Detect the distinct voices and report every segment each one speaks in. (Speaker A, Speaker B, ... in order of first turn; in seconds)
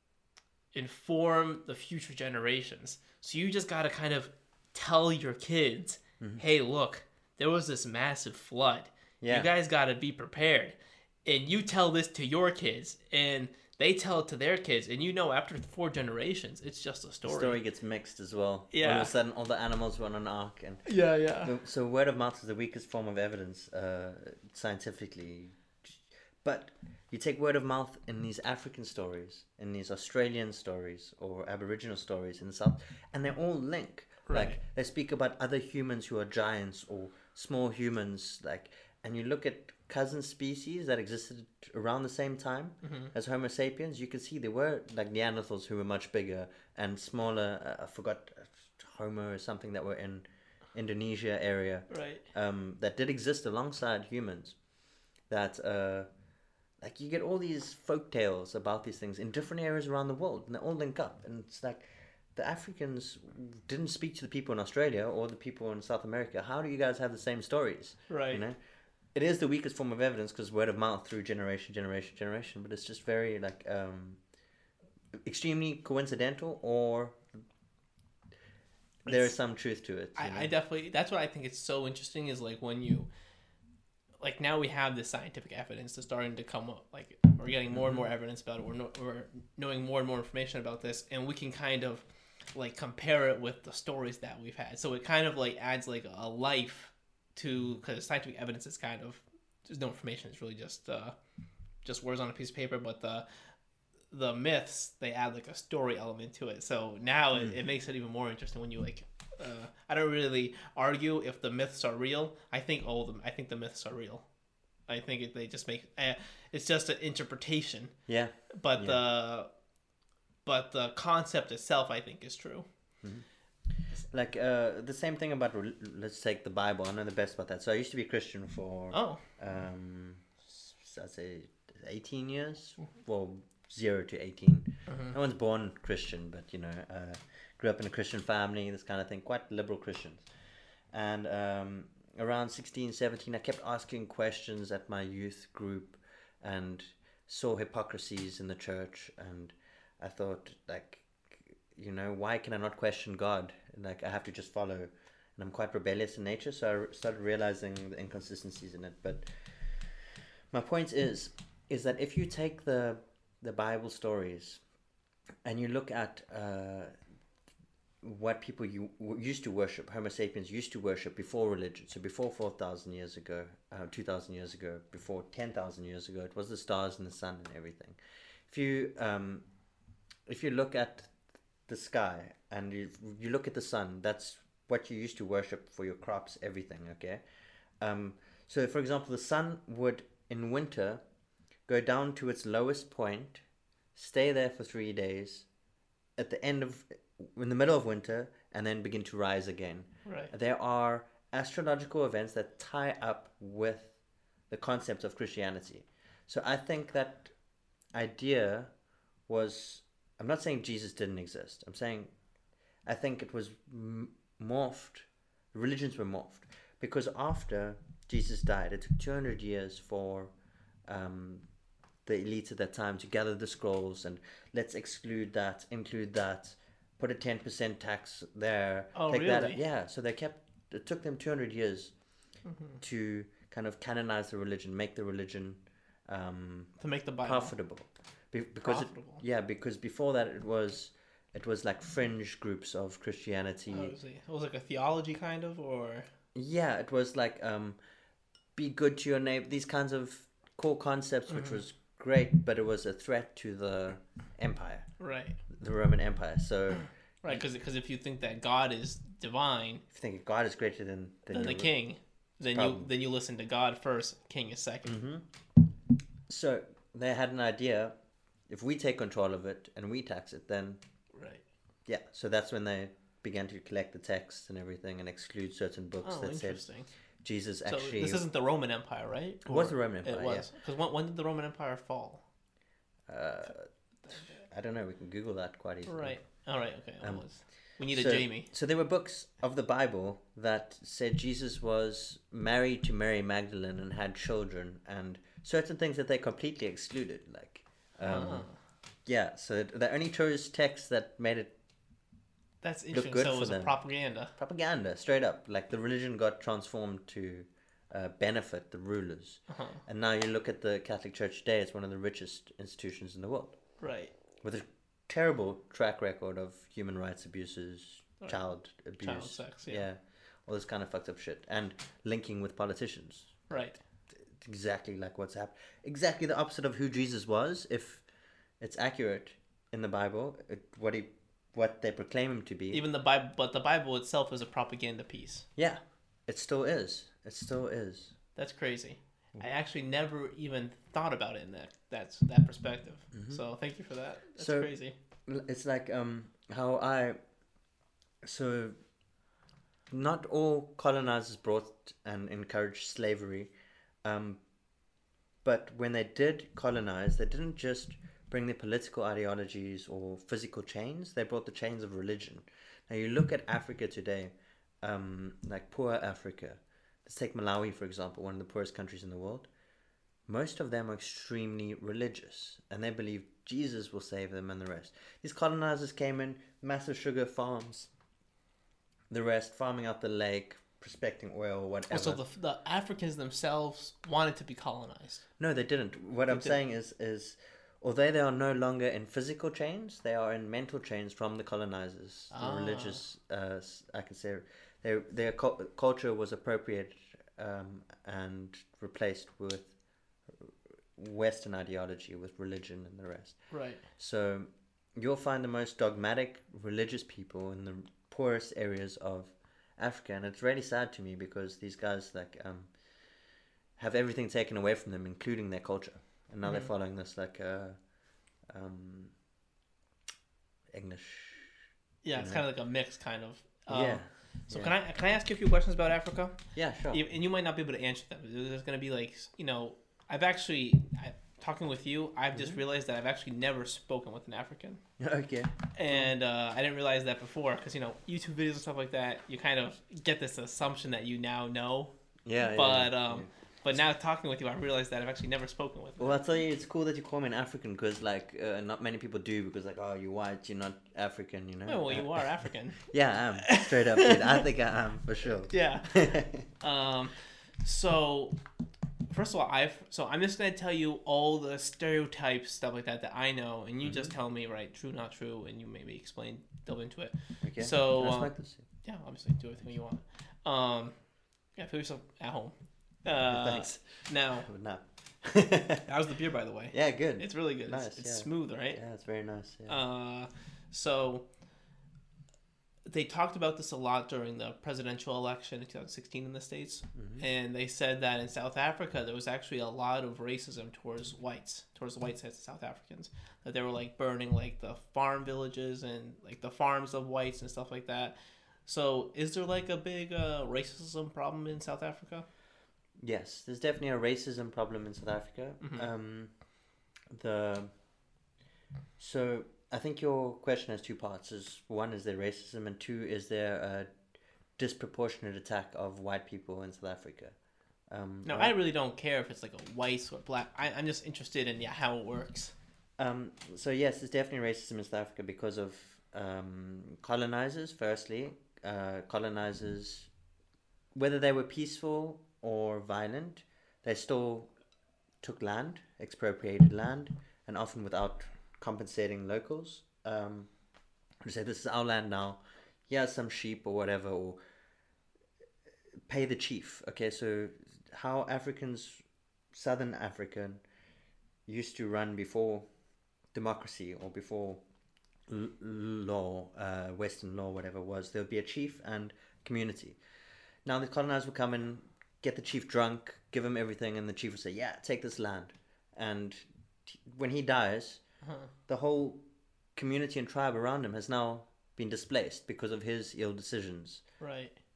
Speaker A: 0.7-17.6, 18.7-19.1, 20.9-21.5, 34.2-34.6, 42.8-43.1, 51.9-52.2, 68.1-68.4, 79.0-79.3, 80.2-83.1, 84.2-101.2, 101.8-103.2, 104.1-114.3, 114.9-119.5, 120.4-122.7, 128.9-129.2, 134.9-135.2, 200.1-200.3, 228.9-229.6, 232.4-232.8, 236.8-237.5, 238.6-239.2, 243.7-246.1, 251.3-251.6, 255.0-255.4, 257.2-259.8, 261.3-264.9, 271.1-271.4, 276.0-276.9, 277.6-282.2, 284.0-284.4, 285.9-288.5, 298.0-298.6, 302.6-304.3, 309.5-309.8, 313.8-314.1, 318.2-319.9, 323.5-323.8, 332.7-335.5, 338.4-344.9, 381.9-385.2, 386.3-386.6, 392.3-393.0, 403.5-403.8, 416.4-416.7, 422.0-434.8, 435.7-446.2, 451.6-452.9, 453.4-454.4, 455.5-458.4, 459.1-470.9, 471.5-474.5, 475.9-478.8, 479.7-481.3, 482.9-502.2, 505.6-505.9, 518.2-522.5, 568.2-568.5, 574.2-574.5
Speaker B: 9.2-9.5, 17.2-54.6, 55.3-56.1, 56.8-68.6, 69.1-74.2, 75.2-77.2, 79.0-80.5, 87.7-88.1, 118.1-119.0, 123.0-164.6, 165.4-166.9, 168.0-179.5, 180.3-181.1, 181.7-187.2, 187.8-191.0, 191.7-193.4, 193.9-195.5, 196.2-204.0, 204.5-207.3, 207.9-212.1, 212.8-220.3, 220.8-221.4, 222.0-232.1, 232.8-243.9, 246.3-247.8, 248.5-254.9, 255.5-257.4, 259.9-261.7, 262.5-262.9, 264.9-265.2, 266.3-268.0, 268.5-270.8, 271.9-276.7, 277.2-278.2, 279.4-280.5, 283.1-286.5, 287.0-298.5, 299.0-301.5, 302.9-303.8, 304.3-313.6, 314.4-328.1, 328.6-332.8, 335.6-338.1, 343.1-343.4, 344.4-344.7, 345.2-347.2, 348.2-348.8, 349.9-353.5, 354.0-354.4, 355.4-369.5, 370.3-377.9, 379.1-382.2, 385.4-399.7, 400.4-412.8, 413.8-417.9, 418.5-419.1, 420.7-421.5, 422.1-422.4, 423.7-424.7, 426.5-427.0, 432.3-432.6, 435.0-436.1, 442.2-443.3, 446.0-456.5, 463.8-464.1, 467.4-468.6, 473.3-475.9, 476.7-479.8, 486.9-487.2, 503.0-506.3, 507.1-507.7, 509.0-513.9, 514.6-517.4, 517.9-518.5, 523.0-530.1, 530.9-534.5, 535.2-540.5, 541.2-544.4, 546.1-550.6, 551.5-552.7, 553.3-554.6, 555.3-560.0, 560.6-568.0, 568.7-569.2, 569.7-574.0